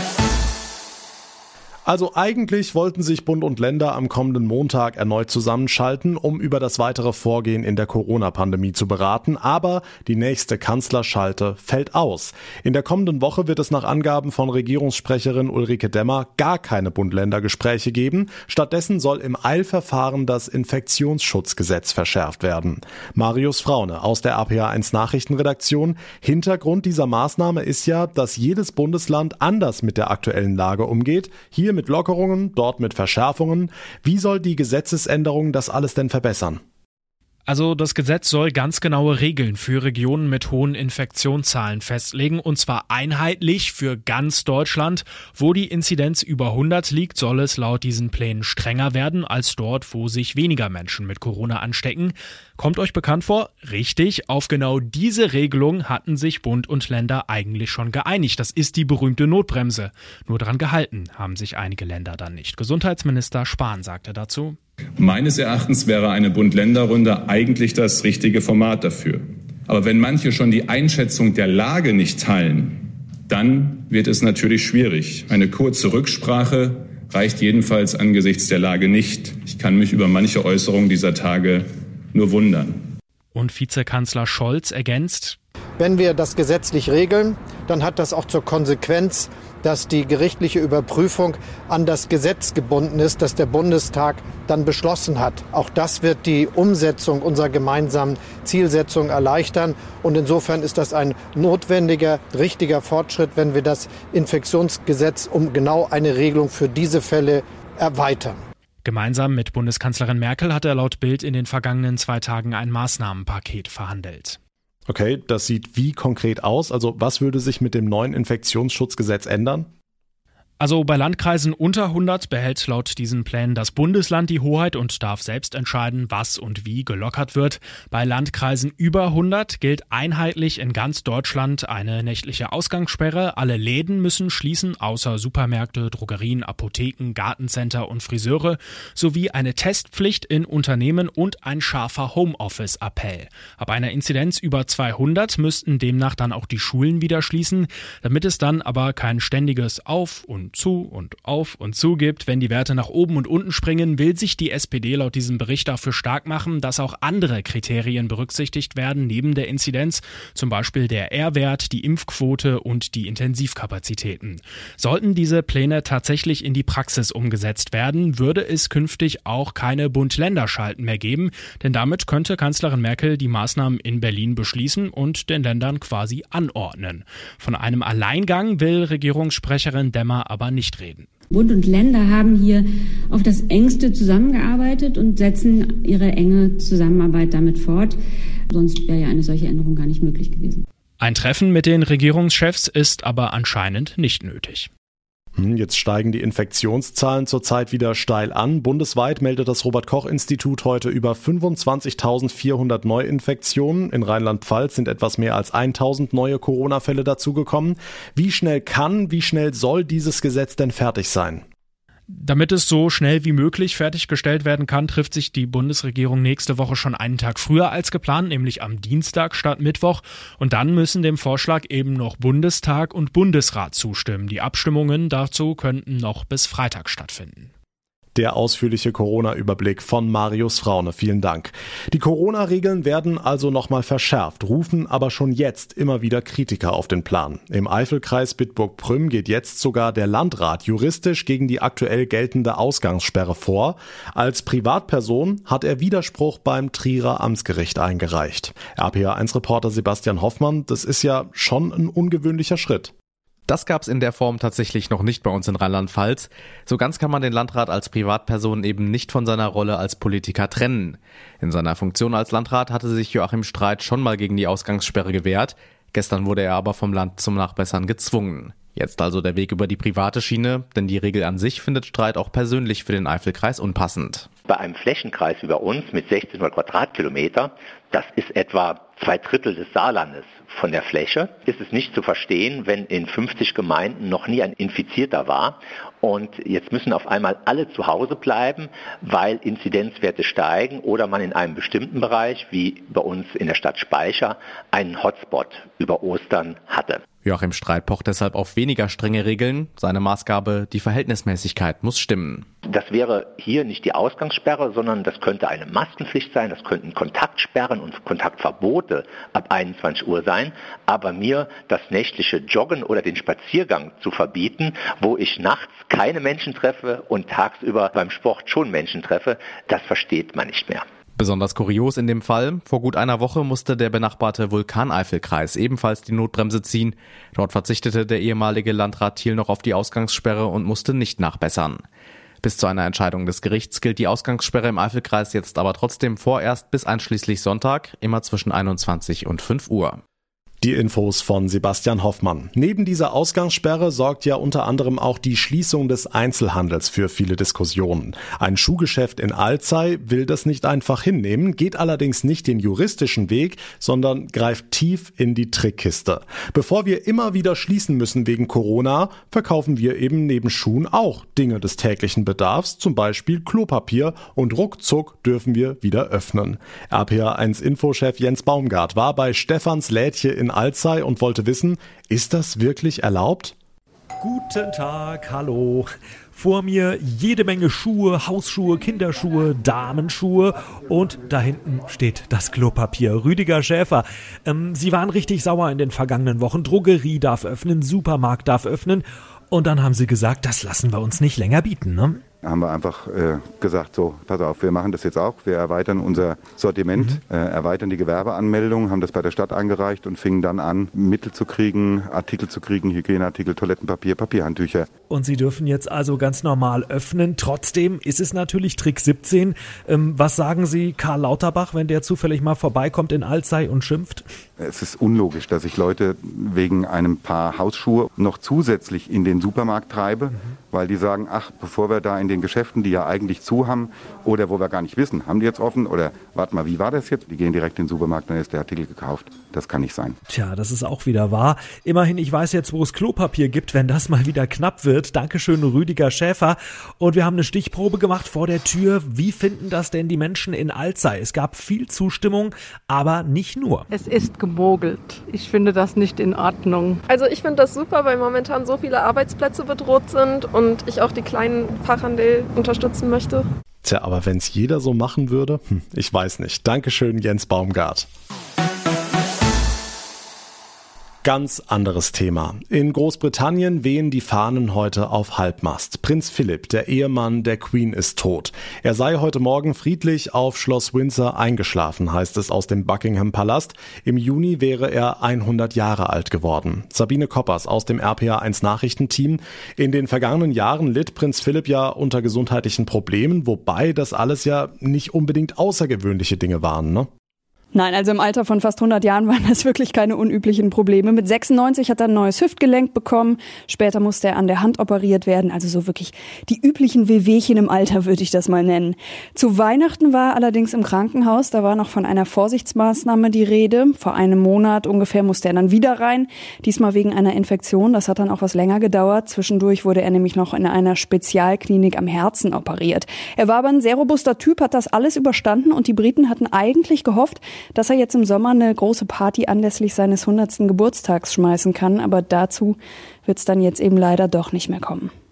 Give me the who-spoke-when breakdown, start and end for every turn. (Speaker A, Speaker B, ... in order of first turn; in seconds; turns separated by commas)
Speaker A: 1.9-36.6, Speaker B: 37.5-64.6, Speaker C: 65.0-82.9, Speaker B: 83.3-85.4, Speaker D: 85.8-108.4, Speaker B: 108.8-114.4, Speaker A: 114.9-119.7, Speaker B: 120.6-181.1, Speaker E: 181.3-188.0, Speaker E: 188.5-190.6, Speaker B: 191.0-194.7, Speaker A: 195.4-211.4, Speaker B: 212.1-227.5, Speaker A: 228.2-252.9, Speaker F: 253.5-274.3, Speaker G: 274.5-297.0, Speaker F: 297.2-302.5, Speaker G: 302.7-320.8, Speaker F: 321.2-331.8, Speaker F: 332.4-340.0, Speaker A: 340.6-373.6, Speaker H: 374.2-392.2, Speaker I: 392.4-404.9, Speaker H: 396.9-397.2, Speaker H: 405.1-414.3, Speaker I: 414.6-430.2, Speaker H: 430.3-443.9, Speaker J: 443.9-447.0, Speaker K: 447.1-453.4, Speaker A: 453.8-458.1, Speaker A: 461.2-487.1, Speaker L: 487.8-525.1